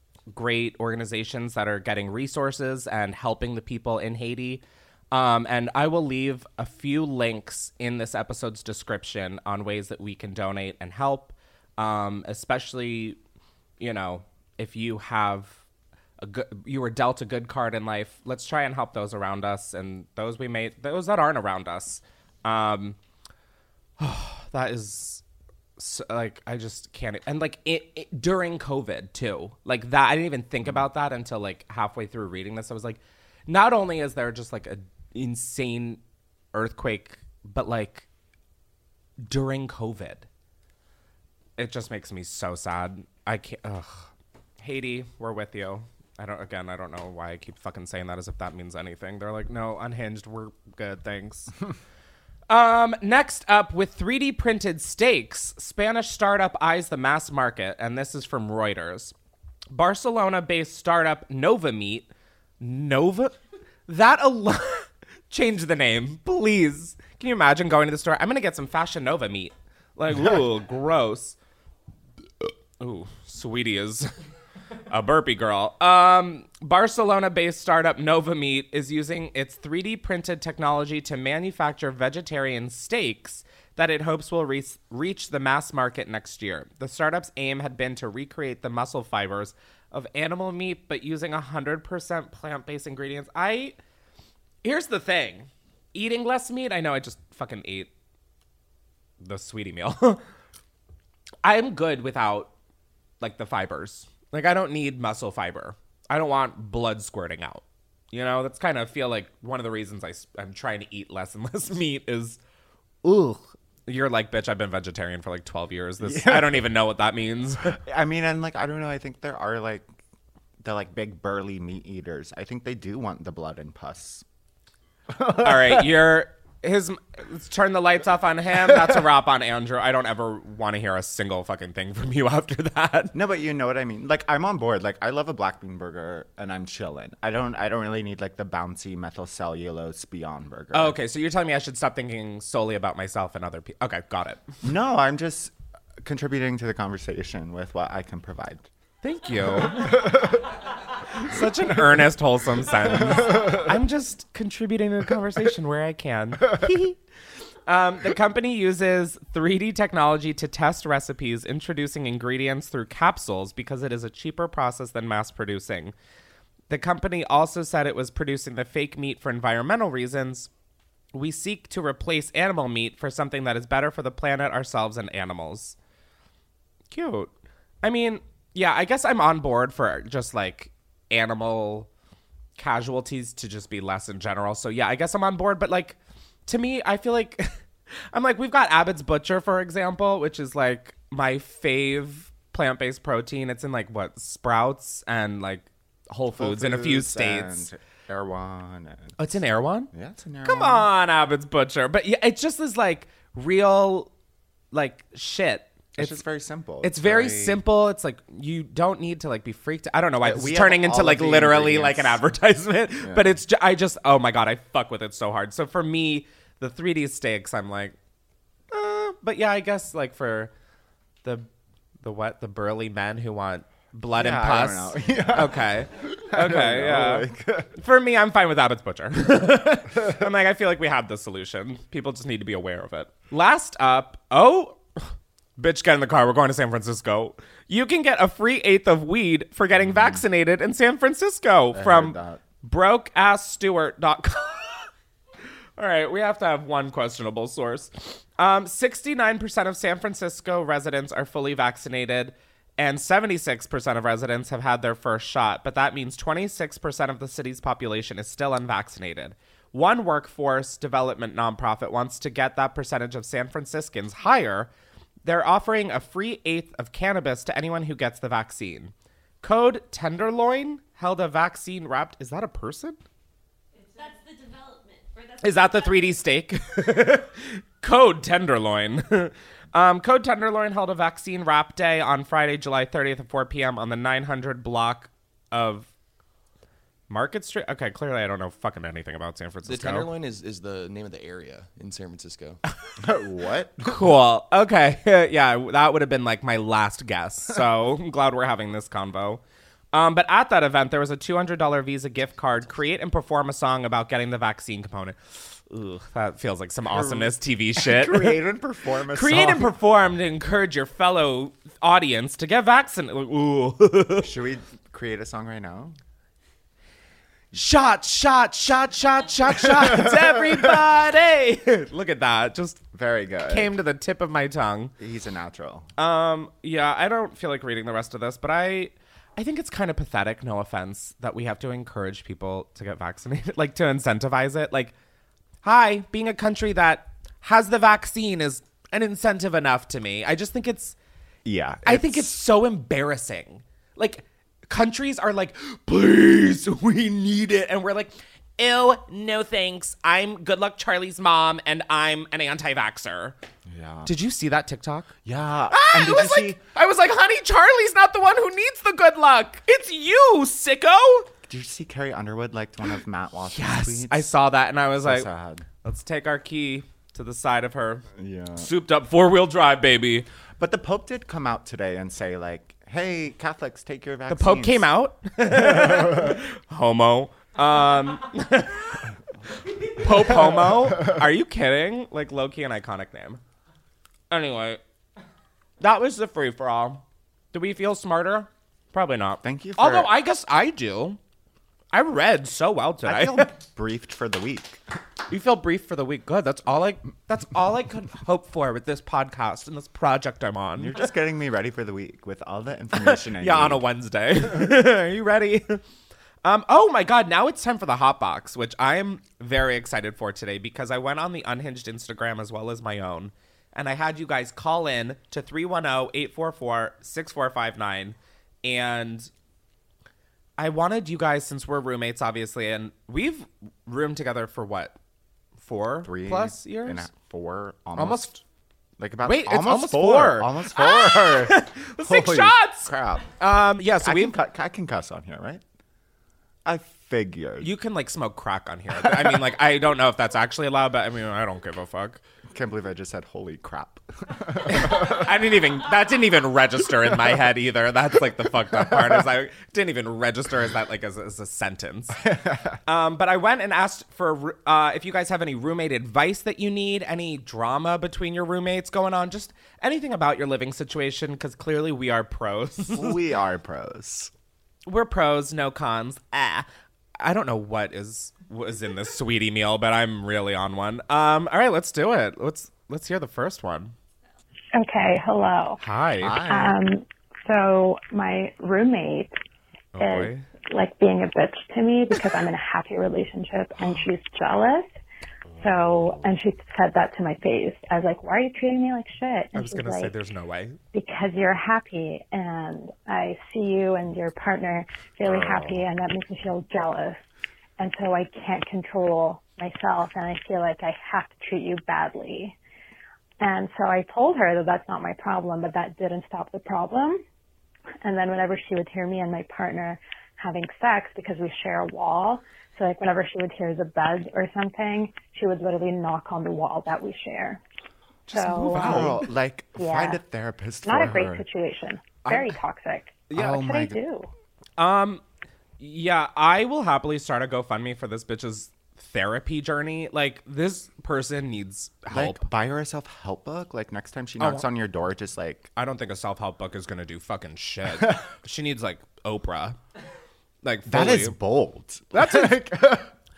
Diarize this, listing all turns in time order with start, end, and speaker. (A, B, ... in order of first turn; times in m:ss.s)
0:00.3-0:13.2 A
0:13.8-0:15.6 A
0:16.2-0:23.0 A
0:24.0-0:25.2 A
0:25.8-0:36.0 A
0:36.5-0:38.0 A
0:39.2-0:40.3 A
0:41.6-0:44.1 A
0:44.6-0:51.5 A
0:52.5-0:59.1 A
0:59.7-1:02.1 A
1:02.6-1:03.3 A
1:03.9-1:11.4 A
1:12.8-1:14.1 A
1:14.9-1:33.8 A
1:34.6-1:37.9 A
1:39.2-1:40.2 A
1:41.4-1:42.5 A
1:43.2-1:52.4 A
1:53.0-1:57.8 A
1:56.0-1:56.7 B
1:57.8-1:59.9 B
2:00.6-2:04.2 B
2:05.1-2:05.9 B
2:05.4-2:13.1 A
2:08.6-2:09.0 B
2:13.1-2:21.0 B
2:20.7-2:24.6 A
2:24.6-2:25.5 B
2:26.0-2:28.7 B
2:29.0-2:30.1 A
2:29.8-2:30.2 B
2:31.0-2:37.0 A
2:37.6-2:45.9 A
2:46.7-2:50.5 A
2:51.1-2:55.8 A
2:56.9-2:57.3 A
2:57.8-3:01.9 A
3:02.6-3:07.6 A
3:08.1-3:17.7 A
3:16.4-3:19.2 B
3:19.2-3:19.9 A
3:19.9-3:20.9 B
3:20.4-3:24.1 A
3:24.7-3:26.2 A
3:25.9-3:27.6 B
3:26.8-3:38.0 A
3:30.2-3:32.2 B
3:38.7-3:40.5 A
3:41.2-3:41.5 A
3:42.0-3:54.8 A
3:44.1-3:47.7 B
3:55.6-4:04.9 A
3:59.8-4:00.2 B
4:01.7-4:02.4 B
4:05.8-4:24.7 A
4:25.2-4:33.0 A
4:33.8-4:36.2 C
4:35.4-4:45.9 A
4:47.1-4:50.1 A
4:49.6-4:52.6 D
4:53.0-4:54.0 B
4:53.8-4:59.4 A
4:59.9-5:08.4 A
5:06.9-5:09.7 B
5:09.1-5:14.3 A
5:14.2-5:15.9 B
5:17.5-5:22.8 A
5:19.7-5:20.6 B
5:22.9-5:23.8 B
5:23.5-5:24.9 A
5:25.0-5:25.9 B
5:26.0-5:34.9 A
5:35.6-5:41.0 A
5:41.4-5:42.3 B
5:41.8-5:53.4 A
5:53.6-5:54.1 B
5:54.0-5:55.1 A
5:55.2-5:56.6 B
5:55.7-6:01.3 A
6:01.5-6:04.3 B
6:03.5-6:05.3 A
6:05.0-6:05.6 B
6:05.8-6:10.3 A
6:08.1-6:08.7 B
6:10.6-6:14.9 B
6:14.3-6:19.1 A
6:15.5-6:16.4 B
6:19.8-6:23.4 A
6:20.3-6:21.1 B
6:24.3-6:24.8 A
6:25.8-6:31.2 A
6:29.4-6:30.1 B
6:31.9-6:33.5 A
6:33.0-6:34.8 B
6:35.3-6:41.1 A
6:40.8-6:43.8 B
6:42.9-6:45.8 A
6:46.4-6:59.3 A
7:00.6-7:05.0 A
7:05.6-7:07.1 A
7:06.0-7:08.3 B
7:08.0-7:08.4 A
7:09.0-7:13.3 B
7:09.2-7:14.4 A
7:14.0-7:15.6 B
7:16.6-7:17.7 B
7:17.6-7:22.2 A
7:19.0-7:19.5 B
7:22.5-7:25.3 B
7:24.6-7:32.2 A
7:28.7-7:29.2 B
7:32.2-7:32.8 B
7:32.9-7:43.2 A
7:42.9-7:44.3 B
7:44.9-7:46.7 A
7:47.2-7:53.9 A
7:54.7-7:55.8 E
7:55.8-7:56.5 A
7:56.2-7:56.7 B
7:56.5-7:59.3 E
7:59.9-8:00.4 A
8:00.0-8:04.9 E
8:05.5-8:06.2 B
8:05.6-8:10.1 E
8:09.5-8:10.8 A
8:10.9-8:17.2 E
8:15.2-8:15.7 A
8:17.8-8:22.6 E
8:23.4-8:27.2 E
8:28.0-8:37.6 E
8:38.3-8:39.2 A
8:38.3-8:39.2 E
8:38.7-8:41.4 B
8:39.7-8:40.2 E
8:40.8-8:44.3 E
8:42.2-8:42.5 A
8:43.3-8:44.0 B
8:44.8-8:45.2 A
8:45.8-8:52.4 A
8:52.1-8:55.7 B
8:54.4-8:54.7 A
8:55.8-8:59.8 A
9:00.6-9:01.4 A
9:00.8-9:03.1 B
9:02.2-9:02.6 A